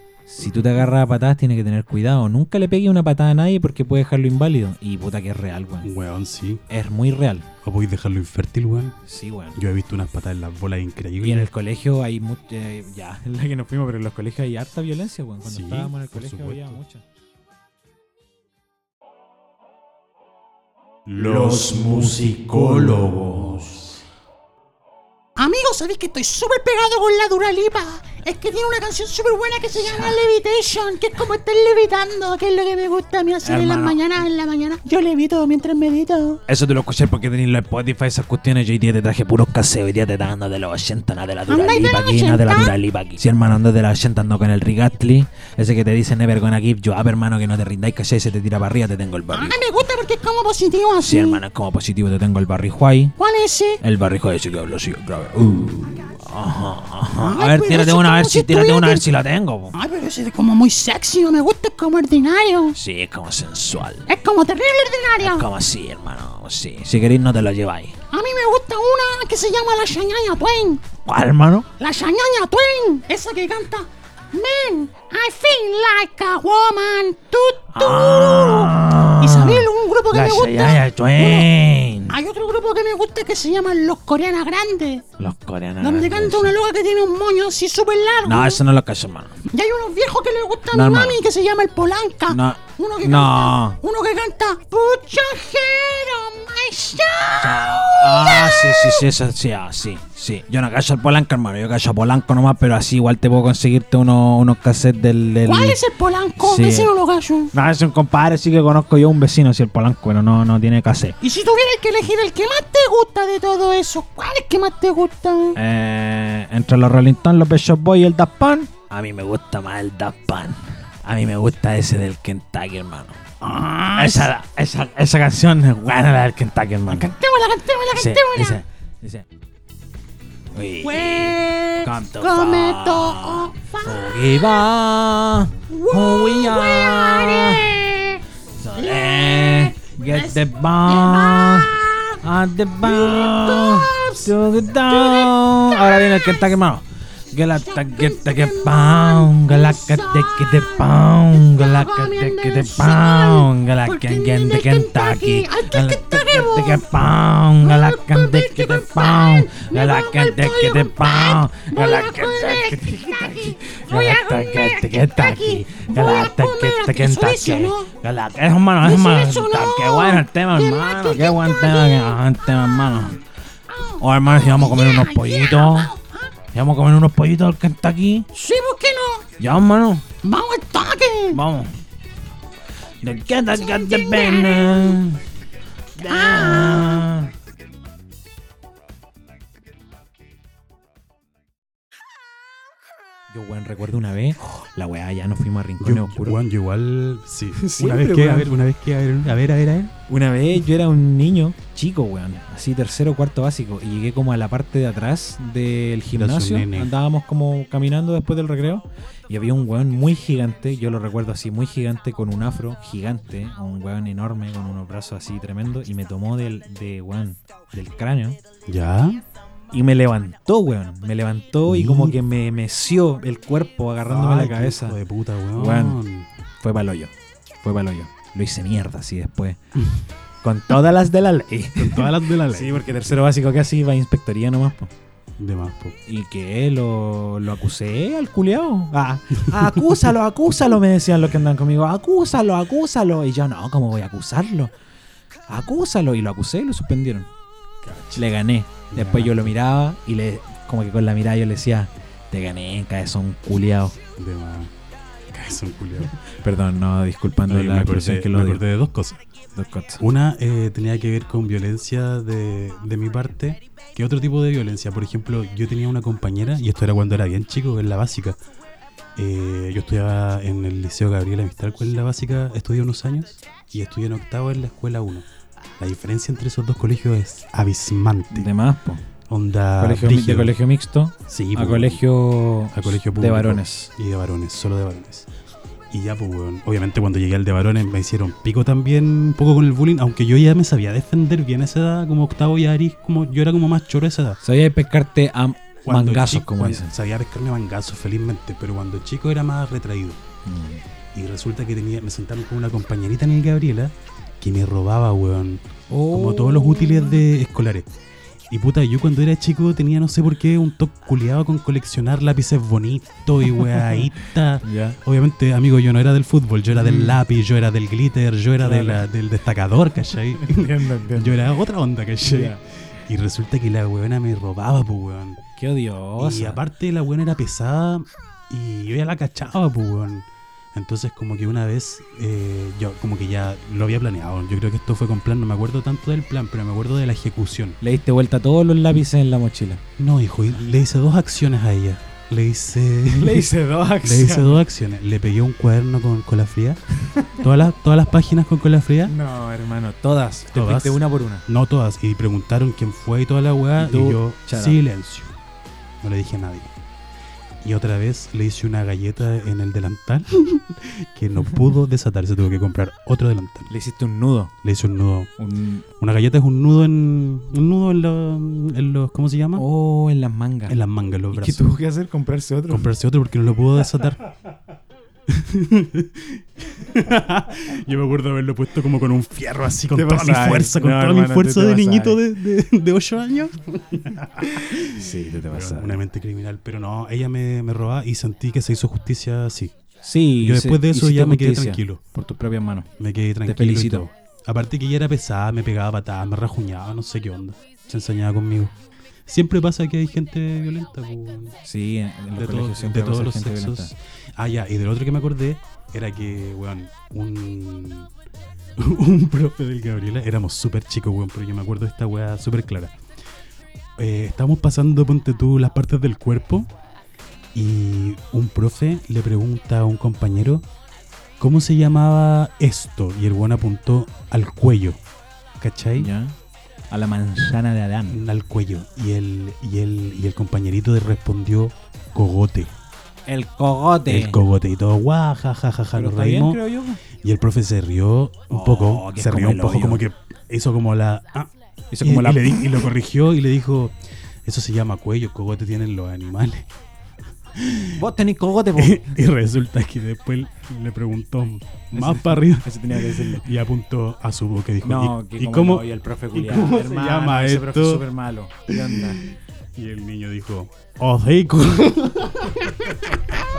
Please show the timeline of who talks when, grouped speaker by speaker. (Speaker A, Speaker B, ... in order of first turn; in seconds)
Speaker A: 0.3-5.9, 6.7-7.5, 9.1-9.6, 11.2-17.0, 21.2-23.5, 29.8-30.2, 33.4-34.0, 36.5-49.6, 51.0-53.1, 53.8-59.8, 62.8-64.1, 65.2-68.0, 71.0-71.7, 77.7-82.2, 85.2-86.5, 88.2-89.4, 90.7-91.2, 92.3-93.8, 97.4-105.8, 106.4-106.9, 107.5-111.2, 115.6-127.1, 128.0-129.3, 130.5-137.8, 138.6-173.2, 174.0-175.9, 176.5-178.3, 179.4-180.1, 181.3-181.7, 183.0-185.2, 186.0-187.3, 193.3-196.4, 197.6-198.5, 200.1-218.4, 219.7-225.0, 225.6-226.0, 226.6-227.1, 227.6-229.6, 230.4-234.9, 236.1-244.7, 245.5-247.3, 248.2-254.0, 256.4-258.6, 259.6-260.0, 278.3-279.0, 279.8-283.9, 294.4-296.9, 300.4-300.8, 305.9-307.2, 314.6-315.0, 316.7-317.2, 318.6-319.1, 320.4-321.5, 322.2-322.6, 325.6-326.6, 337.8-339.8, 343.1-344.6, 349.1-351.5, 353.8-354.8, 363.7-364.5, 365.4-365.9, 369.6-370.8, 371.3-372.9, 379.9-382.2, 384.5-386.0, 390.0-392.9, 393.4-394.1, 401.6-403.9, 426.0-426.4, 426.9-428.2, 433.3-434.4, 435.9-437.0, 438.5-440.0, 441.9-442.8, 447.9-449.2, 451.9-453.5, 454.8-459.2
Speaker B: 5.8-6.6, 7.6-9.0, 9.6-11.5, 15.4-16.8, 21.1-24.0, 195.8-199.9, 206.1-206.9, 218.7-219.2, 221.7-222.2, 224.1-226.3, 231.8-233.1, 235.4-236.0, 247.8-248.3, 248.9-249.6, 254.2-254.7, 255.3-256.1, 257.5-259.2, 260.0-268.4, 269.2-275.3, 275.8-278.5, 279.3-280.6, 281.3-282.0, 282.7-285.3, 285.9-294.4, 295.8-300.2, 301.1-307.9, 308.5-325.4, 326.2-337.8, 340.0-349.1, 350.5-355.4, 356.0-356.7, 357.6-363.7, 364.6-365.3, 366.0-369.6, 370.7-371.6, 372.7-374.3, 375.3-389.7, 390.4-392.0, 393.0-398.7, 399.3-401.6, 402.4-408.1, 408.8-412.9, 414.0-416.7, 417.5-420.7, 421.4-425.0, 425.6-426.1, 428.1-432.7, 434.1-446.7, 447.5-448.0, 448.8-458.1, 458.7-463.2
Speaker C: 25.4-36.4, 41.5-42.8, 49.3-51.4, 53.2-53.8, 57.2-59.1, 59.7-62.8, 64.1-65.5, 68.1-70.8, 71.8-81.5, 82.1-85.1, 85.8-88.6, 89.5-99.1, 105.5-107.5, 111.2-115.6, 123.5-124.3, 126.9-128.6, 130.8-134.6, 135.7-138.2, 138.8-142.2, 142.8-146.5, 147.5-167.9, 168.8-172.4, 173.7-176.3, 178.3-179.3, 180.2-181.4, 183.3-185.0, 186.1-187.1